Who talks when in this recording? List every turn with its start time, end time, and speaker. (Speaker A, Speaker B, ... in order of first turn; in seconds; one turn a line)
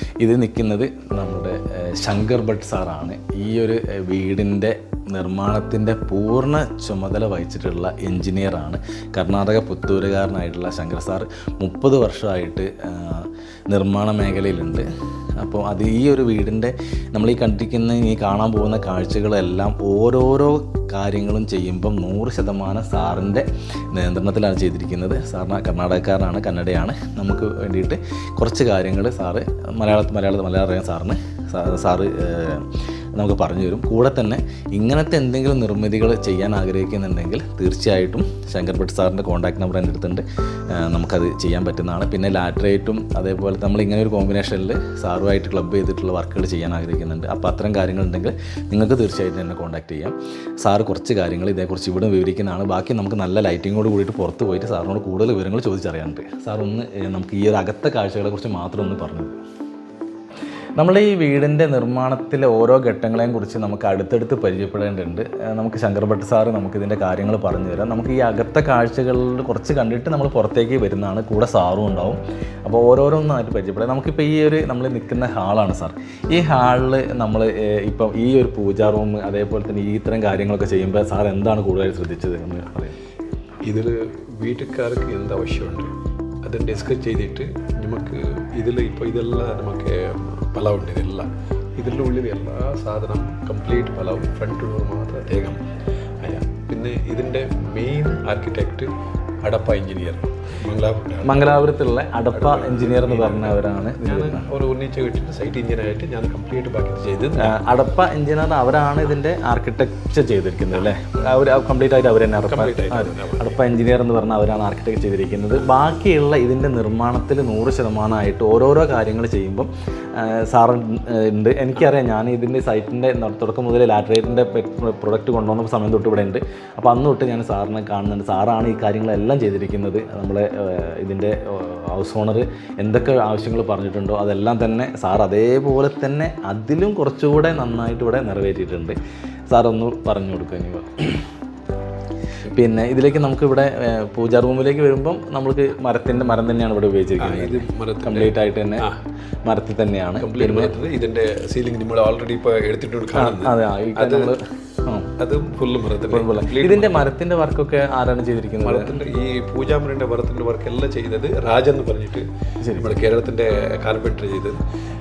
Speaker A: 0.2-14.9
Speaker A: 15.4-59.4
Speaker A: 60.8-83.0
Speaker B: 83.6-85.9
Speaker B: 86.4-95.6
Speaker B: 96.2-98.9
Speaker B: 99.4-101.5
Speaker A: 101.2-104.5
Speaker B: 102.3-107.6
Speaker A: 107.4-139.0
Speaker B: 112.5-113.6
Speaker A: 139.5-141.3
Speaker A: 142.5-148.9
Speaker B: 147.2-149.0
Speaker A: 149.4-150.7
Speaker B: 150.2-154.3
Speaker A: 153.2-155.1
Speaker B: 155.2-157.0
Speaker A: 156.1-158.9
Speaker B: 158.6-164.6
Speaker A: 162.6-162.9